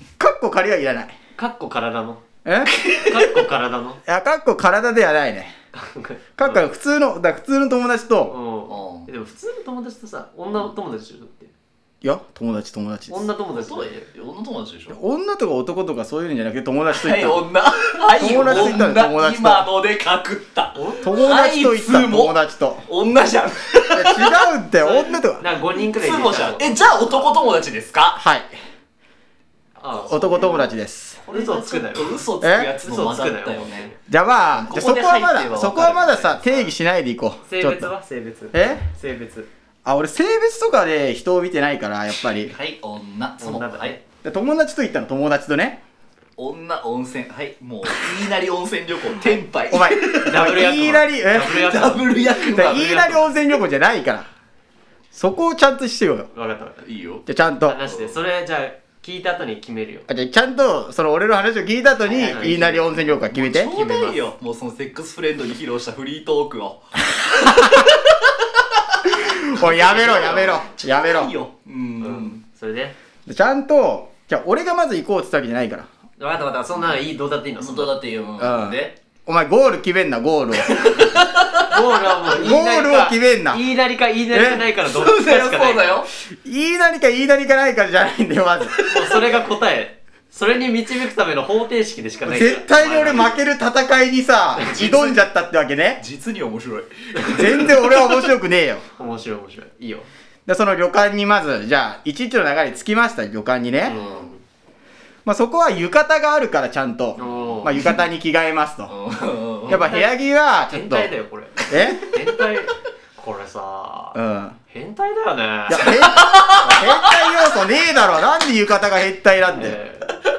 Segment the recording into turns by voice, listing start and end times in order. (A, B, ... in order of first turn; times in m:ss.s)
0:00.2-0:01.1 A
0:01.4-0:02.2 B
0:02.4-0:02.7 A
0:02.9-0:04.0 B
0:04.0-0:05.5 A
0:05.7-0:06.6 B
0:06.4-0:08.3 A
0:08.3-0:11.5 B
0:08.7-0:09.1 C
0:12.0-0:13.2 A
0:13.1-0:14.1 B
0:13.5-0:15.0 C
0:14.9-0:17.4 A
0:16.9-0:24.5 C
0:18.1-0:19.7 A
0:20.7-0:21.3 B
0:21.0-0:22.8 A
0:23.9-0:25.4 A
0:24.8-0:26.8 B
0:25.7-0:28.2 C
0:28.2-0:28.5 A
0:29.8-0:30.7 B
0:29.9-0:30.7 C
0:30.1-0:31.2 A
0:31.2-0:32.2 B
0:31.3-0:33.9 C
0:32.4-0:32.7 A
0:32.8-0:34.0 B
0:34.1-0:37.9 A
0:34.5-0:36.7 C
0:37.4-0:39.5 B
0:38.5-0:38.9 A
0:39.8-0:42.5 A
0:42.2-0:44.0 C
0:43.4-0:44.0 B
0:44.2-0:45.8 A
0:46.4-0:50.6 C
0:49.7-0:51.8 A
0:50.2-0:53.3 B
0:51.3-0:53.0 C
0:52.5-0:54.3 A
0:55.1-0:56.3 A
0:56.3-0:56.8 B
0:56.8-0:57.2 C
0:57.2-0:57.8 A
0:57.6-1:00.1 B
0:57.8-0:58.2 C
1:00.1-1:03.7 A
1:02.0-1:02.9 B
1:02.1-1:08.3 C
1:03.7-1:04.2 B
1:09.2-1:11.3 A
1:09.5-1:12.4 C
1:12.0-1:12.9 B
1:13.3-1:15.9 A
1:16.2-1:18.0 B
1:16.7-1:17.0 C
1:17.6-1:18.9 C
1:18.4-1:20.9 A
1:20.7-1:21.7 C
1:21.6-1:26.0 B
1:22.3-1:23.6 A
1:24.3-1:24.6 A
1:24.7-1:26.1 C
1:26.3-1:28.8 A
1:28.8-1:33.4 B
1:32.2-1:36.0 A
1:34.6-1:35.2 C
1:36.0-1:38.3 C
1:37.3-1:38.8 A
1:39.0-1:40.1 B
1:40.5-1:44.0 A
1:43.8-1:44.4 B
1:43.9-1:44.3 C
1:45.2-1:48.9 A
1:47.2-1:48.0 C
1:47.2-1:47.7 B
1:48.9-1:49.8 C
1:49.7-1:51.1 A
1:49.7-1:50.1 B
1:50.6-1:54.2 B
1:51.7-1:52.1 A
1:54.1-1:54.6 A
1:54.7-1:56.0 B
1:55.7-1:59.8 A
1:55.9-1:57.3 C
1:59.4-2:00.2 B